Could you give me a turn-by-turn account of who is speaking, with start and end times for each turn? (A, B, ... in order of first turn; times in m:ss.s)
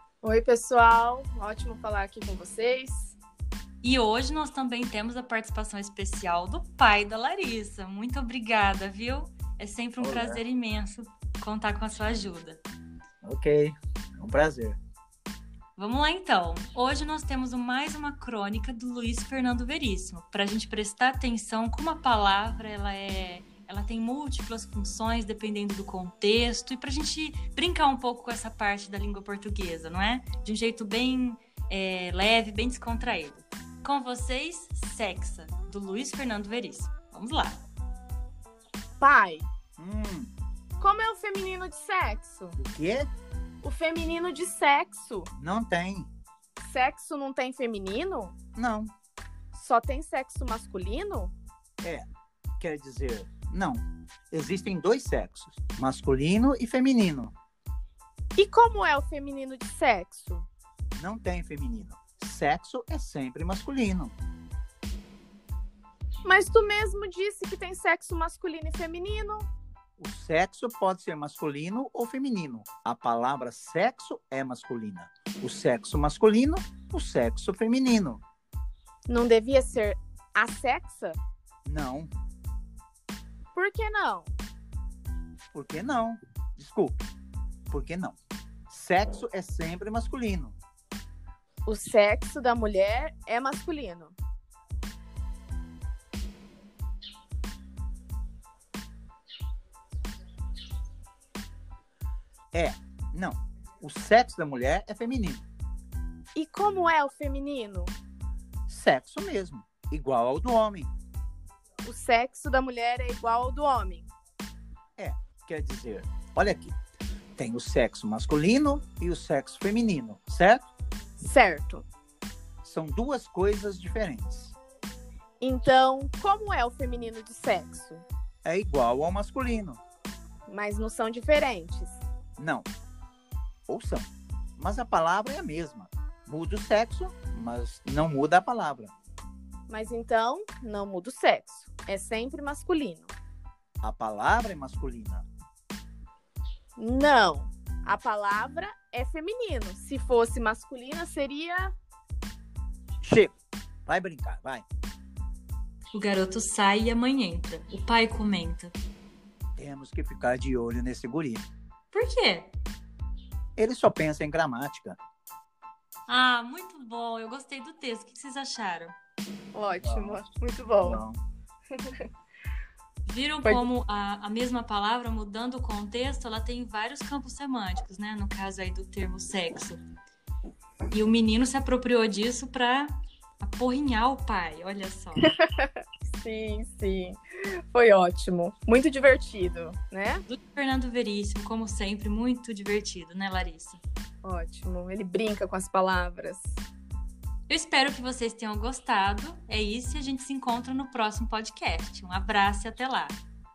0:00.2-0:03.2 A
0:03.8-0:12.6 B
0:10.0-0:10.4 C
0:13.2-0:14.8 C
0:15.8-0:37.6 B
0:39.0-0:39.5 A
0:39.8-0:40.3 C
0:40.8-0:42.6 A
0:42.6-0:43.1 C
0:43.6-0:45.3 A
0:45.4-0:46.1 C
0:46.6-0:48.4 A
0:48.6-0:48.9 C
0:49.5-0:51.3 A
0:52.6-0:57.3 C
0:58.4-1:00.5 A
1:01.0-1:04.2 C
1:06.2-1:09.5 A
1:10.0-1:18.2 C
1:19.1-1:21.2 A
1:21.7-1:22.1 C
1:23.6-1:24.3 A
1:25.5-1:27.0 C
1:27.7-1:28.2 C
1:28.7-1:30.6 C
1:31.7-1:34.2 A
1:42.5-1:45.4 C
1:46.4-1:47.9 A
1:48.7-1:50.9 C
1:51.8-1:54.1 A
1:55.0-1:56.8 C
1:57.4-2:00.7 C
2:01.2-2:01.9 A
2:02.6-2:04.6 C
2:05.4-2:08.1 A
2:08.4-2:09.8 C
2:10.5-2:12.0 A
2:12.4-2:12.7 C
2:13.7-2:18.9 C
2:19.7-2:23.1 A
2:23.8-2:25.2 C
2:26.8-2:31.8 A
2:33.0-2:33.4 C
2:33.9-2:34.6 C
2:35.9-2:38.7 B
2:39.6-2:41.4 C
2:41.9-2:42.5 B
2:43.6-2:45.0 C
2:46.1-2:49.0 B
2:49.5-2:51.0 A
2:49.8-2:50.2 C
2:50.8-2:51.2 C
2:51.8-2:52.0 A
2:53.1-2:59.8 B
3:00.9-3:05.3 B
3:05.4-3:07.2 A
3:07.7-3:10.3 A
3:10.3-3:13.8 B
3:14.2-3:16.6 A
3:17.5-3:23.2 B